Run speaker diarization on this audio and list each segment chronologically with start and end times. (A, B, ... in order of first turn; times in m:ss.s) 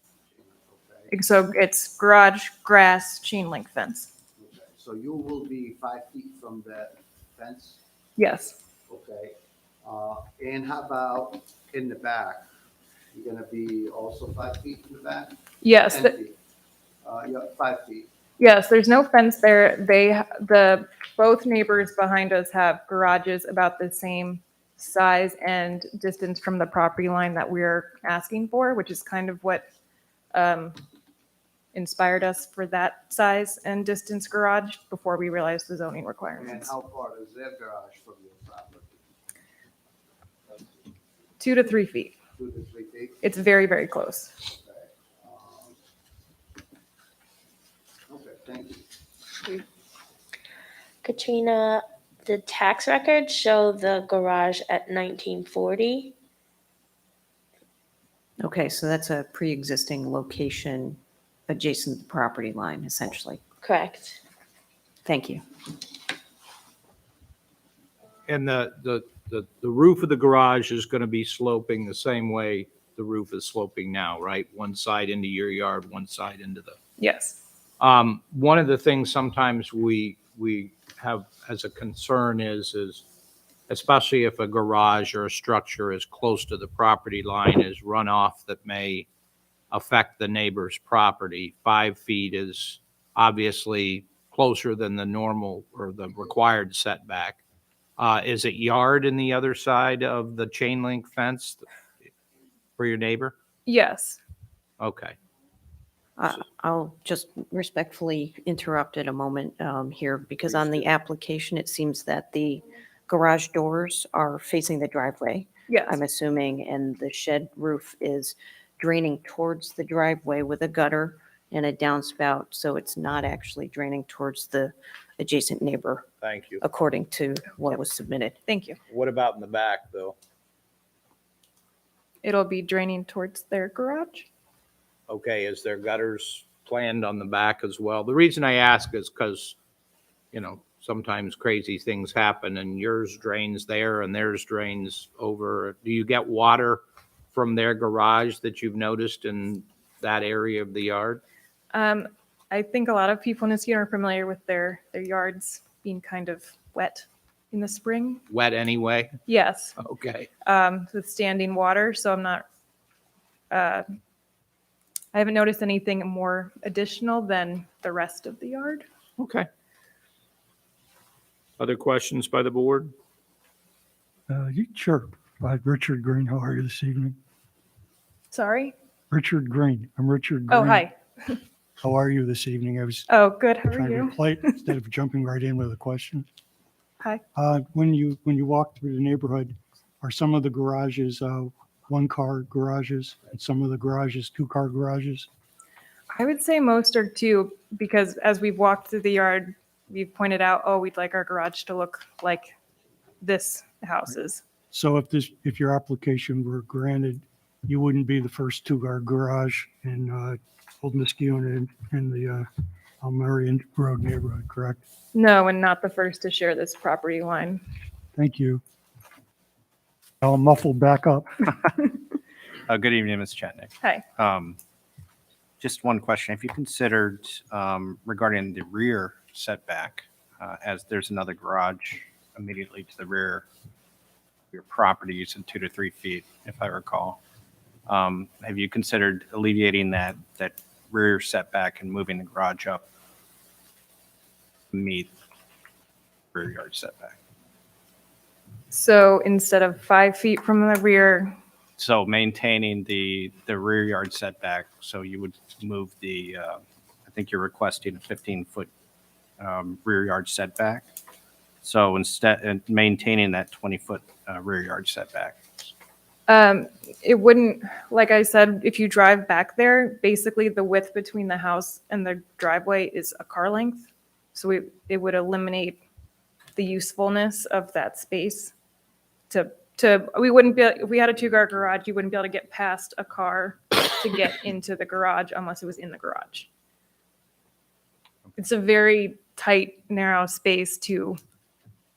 0:00.3-0:01.1 A
0:01.1-0:04.1 B
0:04.4-0:07.8 A
0:08.2-0:08.6 B
0:08.9-0:12.4 A
0:13.1-0:16.4 A
0:15.6-0:16.2 B
0:17.0-0:18.1 A
0:18.4-0:29.7 B
0:30.3-0:30.8 B
0:31.7-0:36.7 B
0:36.4-0:39.0 A
0:41.4-0:42.2 B
0:42.4-0:43.2 A
0:43.2-0:44.4 B
0:44.6-0:45.8 A
0:48.1-0:48.9 A
0:51.0-0:56.1 C
0:58.4-1:03.4 D
1:03.6-1:04.2 C
1:05.0-1:05.4 D
1:08.3-1:16.8 E
1:17.0-1:17.4 B
1:17.8-1:23.0 E
1:23.7-1:29.1 E
1:29.7-1:37.4 E
1:38.0-1:41.6 E
1:42.8-1:43.3 E
1:43.7-1:44.2 B
1:44.8-1:45.2 E
1:46.2-2:06.1 D
1:55.7-1:56.0 B
2:06.2-2:06.6 E
2:06.6-2:08.4 D
2:08.5-2:08.8 B
2:08.9-2:10.2 E
2:12.2-2:14.3 B
2:15.1-2:19.6 E
2:20.3-2:26.8 E
2:27.3-2:31.2 E
2:31.7-2:38.2 B
2:38.3-2:39.2 E
2:39.3-2:39.8 B
2:39.8-2:40.3 E
2:40.4-2:42.5 B
2:43.5-2:43.9 B
2:45.1-2:48.8 B
2:49.2-2:49.5 E
2:51.6-2:52.9 E
2:54.3-2:57.2 F
2:58.3-2:58.7 B
2:59.1-3:00.9 F
3:00.5-3:01.4 B
3:01.8-3:06.3 F
3:03.1-3:04.2 B
3:07.4-3:15.3 F
3:16.1-3:22.5 B
3:23.2-3:24.4 B
3:24.7-3:32.5 F
3:33.0-3:34.8 F
3:35.1-3:37.6 B
3:38.2-3:38.6 F
3:40.2-3:41.5 F
3:42.7-3:44.6 G
3:45.6-3:53.4 G
3:54.5-3:57.2 G
3:57.9-4:02.8 G
4:04.7-4:05.1 G
4:06.3-4:07.2 G
4:08.7-4:11.3 B
4:11.8-4:18.7 G
4:19.4-4:20.8 G
4:21.6-4:25.4 G
4:26.3-4:35.8 B
4:36.6-4:38.5 B
4:39.3-4:46.5 B
4:48.4-4:51.2 B